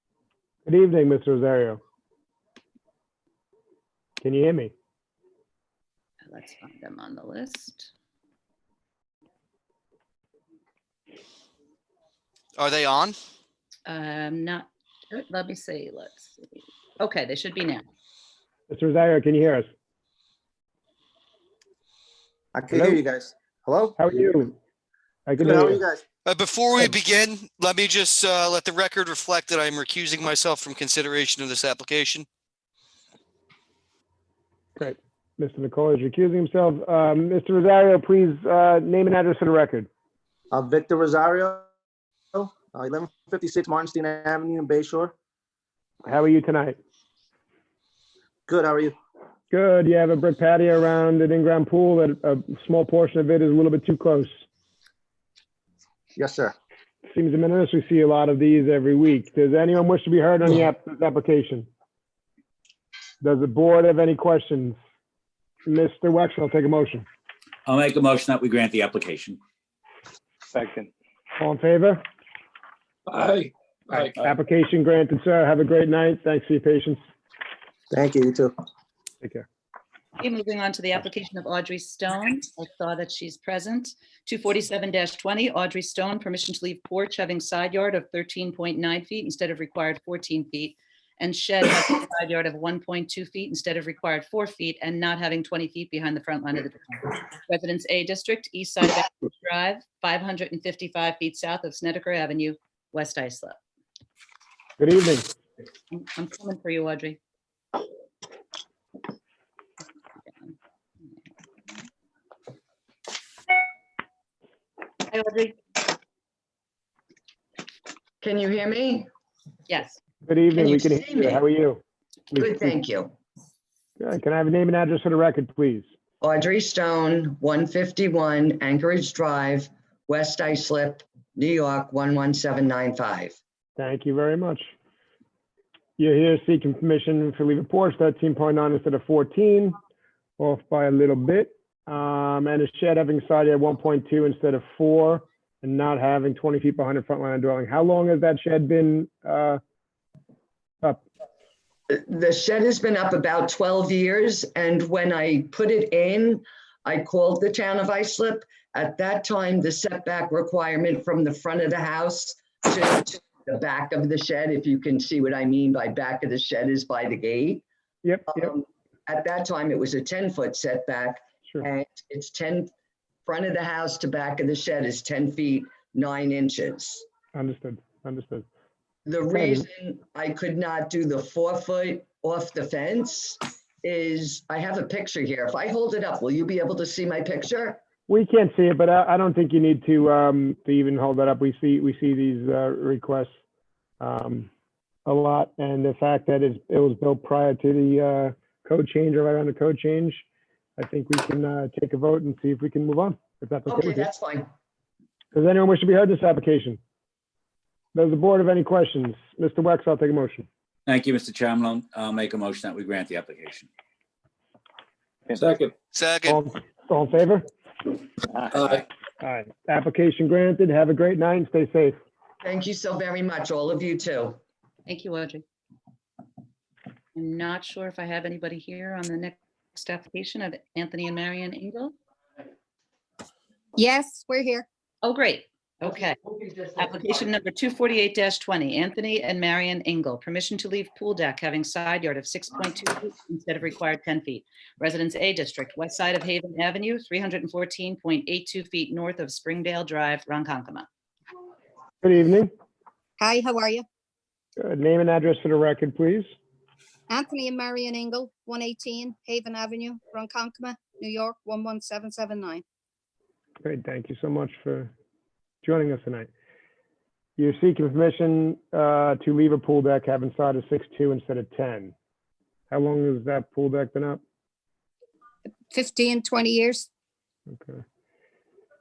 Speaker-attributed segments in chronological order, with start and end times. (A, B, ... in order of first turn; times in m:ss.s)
0:00.7-0:01.8 A
0:04.2-0:04.7 A
0:06.3-0:07.9 B
0:12.6-0:13.2 C
0:13.9-0:17.8 B
0:18.7-0:19.7 A
0:22.5-0:24.0 D
0:22.7-0:23.0 A
0:24.0-0:24.6 A
0:25.3-0:25.8 A
0:25.4-0:26.0 D
0:26.2-0:32.3 C
0:34.8-0:39.9 A
0:40.5-0:41.7 D
0:42.3-0:45.1 D
0:46.0-0:46.8 A
0:48.5-0:49.0 D
0:49.5-0:54.4 A
0:56.2-0:56.6 D
0:57.1-1:01.7 A
1:03.2-1:04.8 A
1:05.7-1:07.0 A
1:07.7-1:09.4 E
1:11.4-1:12.0 A
1:13.1-1:14.2 F
1:14.2-1:17.0 A
1:17.9-1:18.6 D
1:20.2-1:43.6 B
1:44.8-1:45.3 A
1:45.9-1:47.2 B
1:55.1-1:55.6 B
1:58.2-1:59.1 G
1:59.7-2:00.0 B
2:00.3-2:02.8 A
2:00.6-2:01.4 G
2:02.4-2:03.1 G
2:04.0-2:05.9 A
2:06.2-2:13.4 G
2:13.8-2:14.7 A
2:16.0-2:19.8 A
2:20.4-2:29.6 A
2:31.9-2:47.6 G
2:48.0-2:48.5 A
2:48.3-2:52.7 G
2:53.3-2:57.0 G
2:57.3-2:58.5 A
2:59.1-3:07.8 G
2:59.3-2:59.7 A
3:08.1-3:13.3 A
3:14.0-3:14.5 A
3:15.0-3:20.2 A
3:20.8-3:24.1 A
3:23.7-3:24.5 G
3:25.3-3:26.8 A
3:27.9-3:30.5 A
3:30.9-3:33.7 E
3:35.3-3:35.7 F
3:35.9-3:36.4 C
3:36.3-3:37.5 A
3:38.4-3:38.7 E
3:38.5-3:38.8 F
3:39.2-3:42.0 A
3:42.4-3:44.4 G
3:44.9-3:45.4 B
3:47.2-3:51.9 B
3:53.8-3:54.7 H
3:55.0-3:56.2 B
3:56.8-4:10.9 B
4:12.0-4:12.5 A
4:13.2-4:13.8 H
4:14.6-4:16.3 A
4:17.1-4:22.6 H
4:23.6-4:24.9 A
4:25.6-4:26.3 A
4:27.4-4:31.9 A
4:32.7-4:34.2 A
4:35.7-4:36.9 H
4:37.5-4:37.8 A